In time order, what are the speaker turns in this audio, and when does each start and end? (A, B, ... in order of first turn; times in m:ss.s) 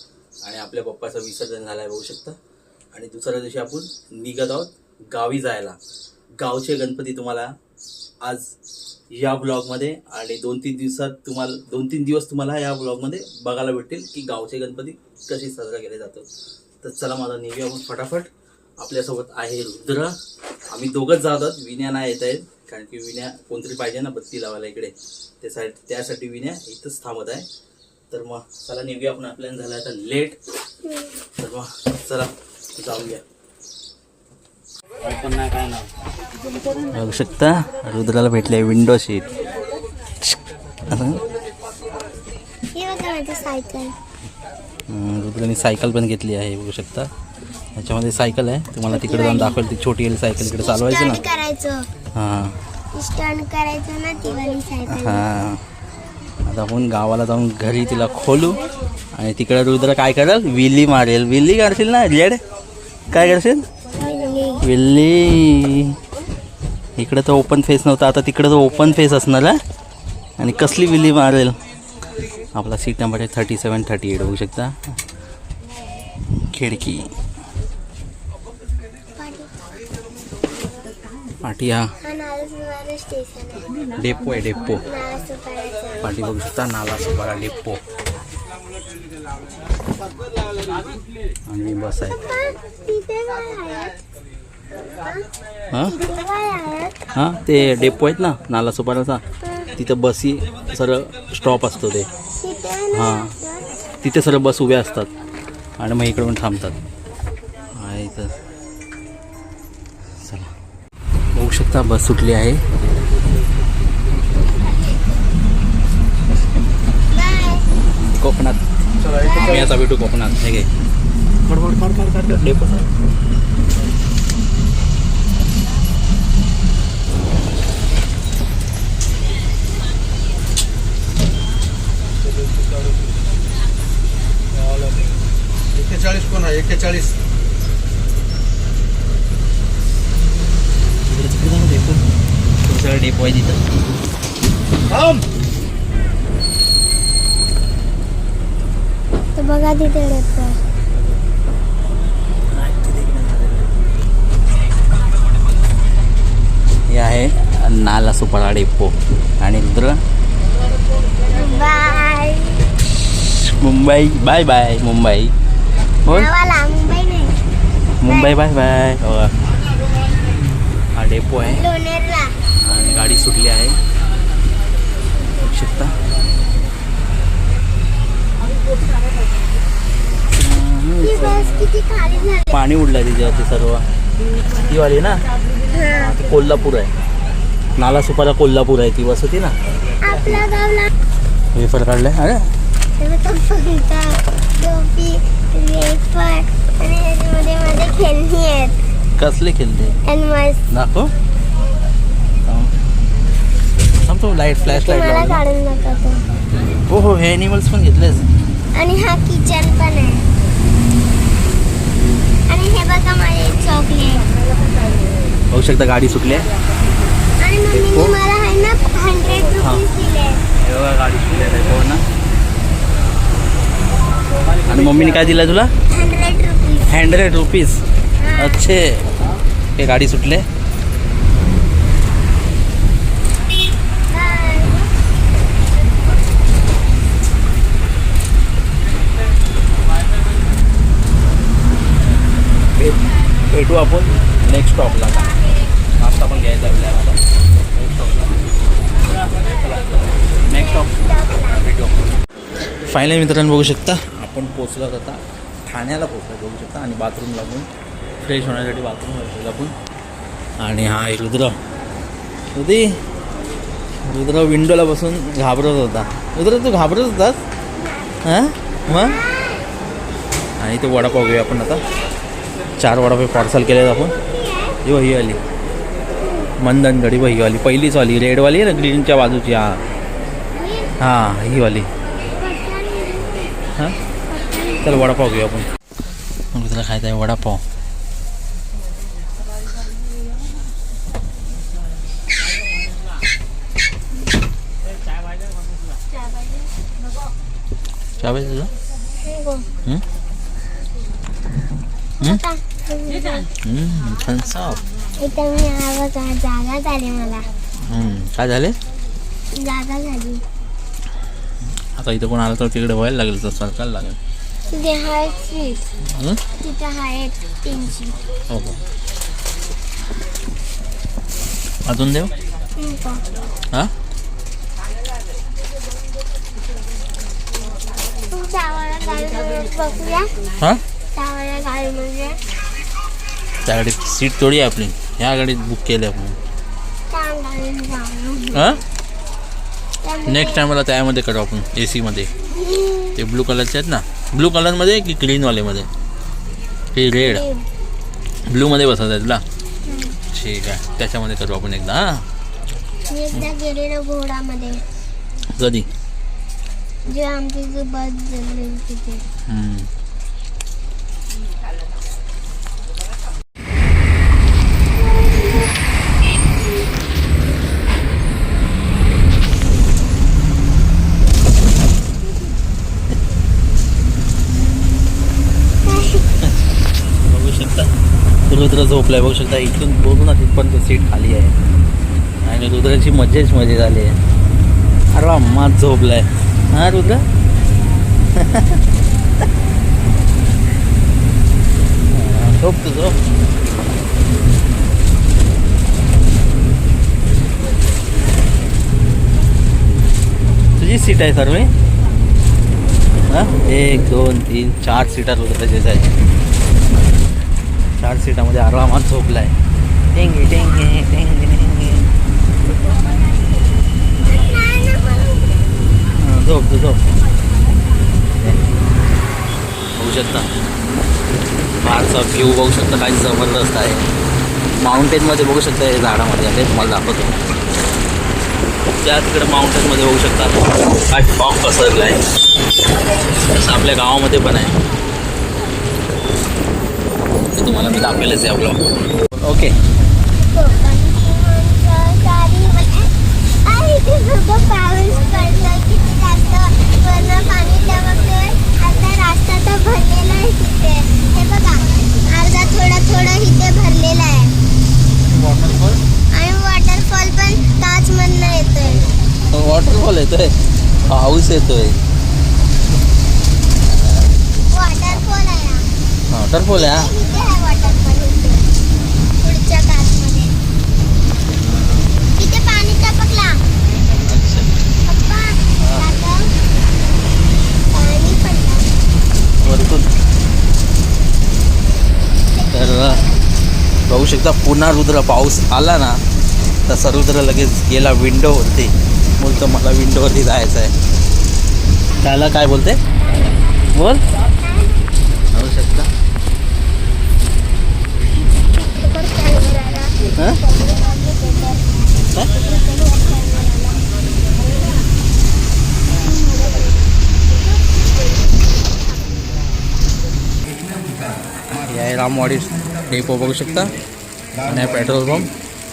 0:00.4-0:02.4 A
0:02.9-0:05.8 A
0:06.4-0:07.5 A
0:08.2-0:08.5 A
0:09.1-0:16.3 A
0:16.8-0:20.2 A
0:20.7-0:27.5 A
0:28.1-0:30.4 A
0:30.8-0:31.2 B
0:31.4-0:33.2 A
0:35.0-0:35.9 A
0:36.9-0:39.3 A
0:40.2-0:41.2 A
0:42.7-0:43.9 B
0:44.9-0:47.1 A
0:47.8-0:51.2 A
0:48.9-0:49.6 B
0:50.4-0:51.9 B
0:52.2-0:52.6 A
0:52.9-0:55.2 B
0:54.9-0:55.6 A
0:56.5-0:58.6 A
0:59.1-1:02.4 A
1:03.1-1:03.7 A
1:04.0-1:04.6 B
1:04.6-1:06.0 A
1:07.0-1:09.6 A
1:10.4-1:11.6 A
1:12.5-1:14.9 A
1:16.5-1:17.1 A
1:19.2-1:19.5 B
1:21.4-1:21.9 A
1:22.0-1:23.8 B
1:24.0-1:24.8 A
1:24.8-1:26.0 B
1:26.0-1:27.8 A
1:31.5-1:32.2 A
1:32.0-1:34.0 B
1:35.0-1:35.3 B
1:35.8-1:37.0 B
1:37.2-1:39.2 A
1:39.4-1:39.7 B
1:39.8-1:42.1 A
1:42.4-1:43.7 B
1:42.9-1:43.3 A
1:44.0-1:45.1 A
1:45.8-1:46.8 A
1:47.8-1:48.4 A
1:50.2-1:50.5 A
1:51.4-1:52.6 A
1:57.1-1:57.7 B
1:58.2-1:58.6 A
1:59.2-1:59.7 B
1:59.3-2:00.7 A
2:01.5-2:02.9 A
2:21.1-2:22.0 A
2:22.6-2:23.6 A
2:29.4-2:30.6 B
2:32.6-2:33.6 A
2:36.9-2:40.0 A
2:41.3-2:42.6 B
2:43.3-2:45.3 A
2:46.1-2:47.4 B
2:48.0-2:49.3 A
2:48.0-2:48.3 B
2:51.0-2:51.6 A
2:51.4-2:52.4 B
2:52.6-2:53.8 A
2:55.4-2:56.0 A
3:00.2-3:01.5 A
3:01.0-3:02.6 B
3:02.5-3:03.8 A
3:04.6-3:05.2 A
3:05.7-3:06.1 B
3:05.9-3:06.9 A
3:07.8-3:09.6 A
3:10.0-3:10.9 B
3:11.5-3:12.5 A
3:13.0-3:18.8 B
3:19.2-3:20.0 A
3:20.0-3:20.6 B
3:20.7-3:21.1 A
3:22.5-3:22.8 A
3:24.0-3:25.4 A
3:24.7-3:26.2 B
3:26.9-3:28.3 A
3:28.8-3:30.2 B
3:32.5-3:34.3 B
3:35.5-3:36.5 A
3:37.4-3:40.4 B
3:37.7-3:38.2 A
3:40.6-3:42.0 A
3:44.6-3:45.7 A
3:45.9-3:46.9 B
3:46.9-3:47.8 A
3:48.2-3:48.7 B
3:48.4-3:49.0 A
3:49.8-3:50.5 A
3:54.1-3:54.7 B
4:02.7-4:05.3 A
4:06.0-4:07.2 A
4:07.7-4:08.3 A
4:09.6-4:09.8 A
4:10.4-4:10.9 A
4:10.6-4:11.6 B
4:11.6-4:12.0 A
4:12.9-4:17.7 A
4:18.2-4:19.7 A
4:20.6-4:21.6 A
4:22.6-4:23.0 A
4:24.0-4:27.4 A
4:27.8-4:28.2 B
4:28.2-4:29.2 A
4:28.9-4:29.7 B
4:30.6-4:31.8 A
4:31.0-4:32.1 B
4:32.8-4:34.2 A
4:33.9-4:34.8 B
4:34.8-4:35.4 A
4:36.2-4:36.5 B
4:36.6-4:39.8 A
4:40.6-4:41.0 B
4:41.0-4:41.9 A
4:42.3-4:43.5 B
4:44.3-4:45.0 B
4:44.8-4:45.7 A
4:46.5-4:47.6 A
4:56.3-4:56.6 B
4:58.2-4:58.7 A
4:59.2-4:59.7 B
5:02.2-5:03.5 B
5:03.6-5:04.8 A
5:05.2-5:07.5 B
5:07.8-5:08.8 A
5:09.6-5:10.4 B
5:11.8-5:14.2 A
5:14.7-5:15.8 B
5:16.1-5:16.4 A
5:16.6-5:18.2 B
5:18.5-5:18.8 A
5:21.9-5:22.3 A
5:22.8-5:23.2 B
5:28.3-5:30.3 B
5:31.2-5:32.4 B
5:33.6-5:36.4 A
5:37.1-5:38.6 B
5:38.5-5:38.8 A
5:40.0-5:40.7 B
5:40.3-5:42.3 A
5:42.5-5:43.2 B
5:43.2-5:45.9 A
5:47.0-5:47.4 A
5:47.2-5:47.6 B
5:48.5-5:49.4 A
5:49.8-5:50.2 B
5:50.3-5:52.2 A
5:53.1-5:54.8 B
5:55.6-5:55.9 A
5:57.1-5:59.2 B
5:59.5-5:59.9 A
6:15.8-6:16.2 B
6:17.3-6:17.9 A
6:18.5-6:21.6 A
6:22.4-6:24.2 A
6:25.1-6:27.2 A
6:28.4-6:28.8 A
6:32.1-6:33.2 A
6:40.8-6:41.7 A
6:43.3-6:46.2 A
6:48.0-6:49.5 A
6:50.1-6:52.1 A
6:54.2-6:55.7 B
6:56.2-6:57.0 A
7:00.0-7:00.5 A
7:01.8-7:04.0 A
7:04.8-7:07.3 A
7:09.0-7:12.3 A
7:13.2-7:14.8 A
7:17.5-7:19.8 A
7:20.4-7:23.1 B
7:23.6-7:34.5 B
7:35.3-7:36.0 A
7:36.3-7:39.1 B
7:39.5-7:42.0 A
7:43.8-7:44.3 A
7:44.7-7:45.9 B
7:46.3-7:47.1 A
7:46.7-7:48.7 B
7:49.4-7:50.6 B
7:51.5-7:52.2 A
7:52.4-7:53.6 B
7:54.2-7:54.8 A
7:55.1-7:56.5 B
7:55.8-7:56.1 A
7:57.9-7:58.9 B
7:59.6-8:00.1 A
8:02.5-8:03.4 B
8:02.7-8:03.2 A
8:04.1-8:06.2 A
8:06.9-8:11.0 A
8:12.2-8:13.0 A
8:13.2-8:13.8 B
8:13.9-8:14.2 A
8:14.6-8:15.0 B
8:15.5-8:16.1 A
8:18.8-8:21.9 B
8:22.4-8:24.0 B
8:26.2-8:26.9 B
8:31.8-8:33.9 A
8:34.6-8:35.5 A